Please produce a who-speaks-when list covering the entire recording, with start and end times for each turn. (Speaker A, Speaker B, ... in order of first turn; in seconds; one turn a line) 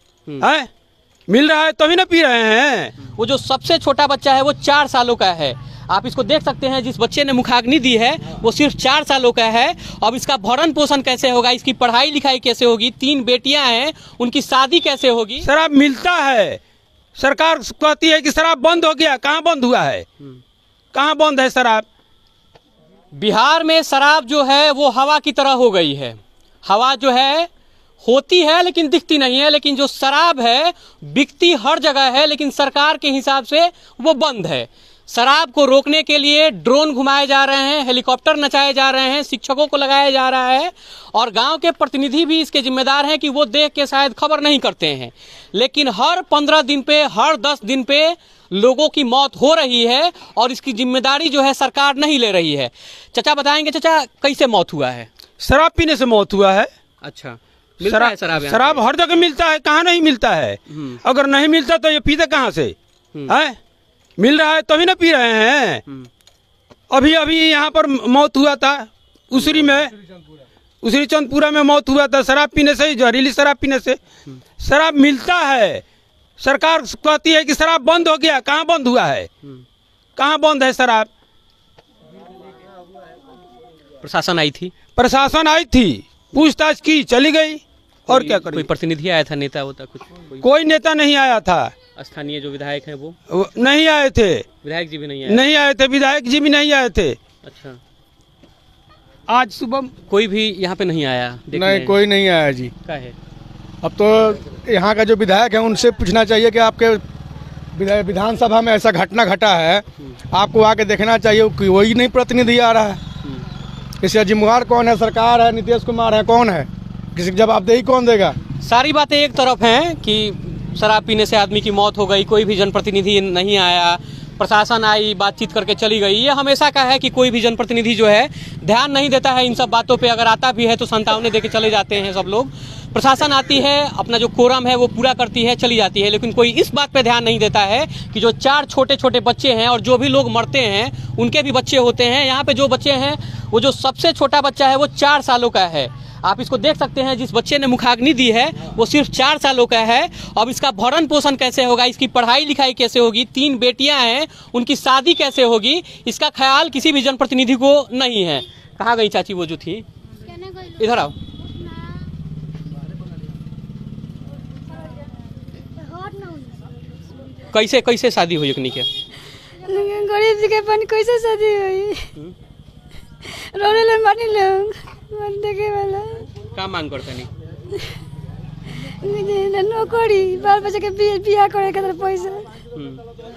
Speaker A: 0.4-0.7
Speaker A: 1.3-3.0
Speaker B: 3.0-15.5
Speaker A: 15.4-16.6
Speaker A: 17.2-20.1
Speaker A: 20.9-21.9
Speaker B: 23.1-27.5
Speaker B: 28.0-55.1
Speaker A: 55.4-56.7
Speaker B: 57.0-58.8
Speaker A: 57.8-62.8
Speaker B: 60.7-61.0
Speaker A: 63.3-63.6
Speaker A: 64.2-65.8
Speaker A: 66.9-69.9
Speaker B: 69.4-69.8
Speaker A: 70.8-74.0
Speaker A: 74.6-75.8
Speaker A: 76.4-79.3
Speaker A: 80.2-81.1
Speaker B: 84.0-84.7
Speaker A: 85.0-88.7
Speaker B: 88.1-90.5
Speaker A: 90.4-91.7
Speaker B: 92.0-93.2
Speaker A: 93.3-94.5
Speaker B: 94.6-95.5
Speaker A: 95.3-97.2
Speaker B: 97.4-97.8
Speaker A: 99.3-99.9
Speaker B: 100.1-102.0
Speaker C: 101.5-102.7
Speaker B: 102.8-103.2
Speaker C: 103.8-107.0
Speaker C: 107.7-113.0
Speaker C: 114.0-118.4
Speaker B: 118.6-159.8
Speaker D: 160.3-160.7
Speaker B: 160.7-161.2
Speaker D: 161.6-162.1
Speaker D: 165.8-166.7
Speaker B: 167.5-168.9
Speaker D: 169.6-172.1
Speaker D: 173.2-176.3
Speaker B: 176.5-177.3
Speaker D: 178.8-182.5
Speaker B: 182.8-183.0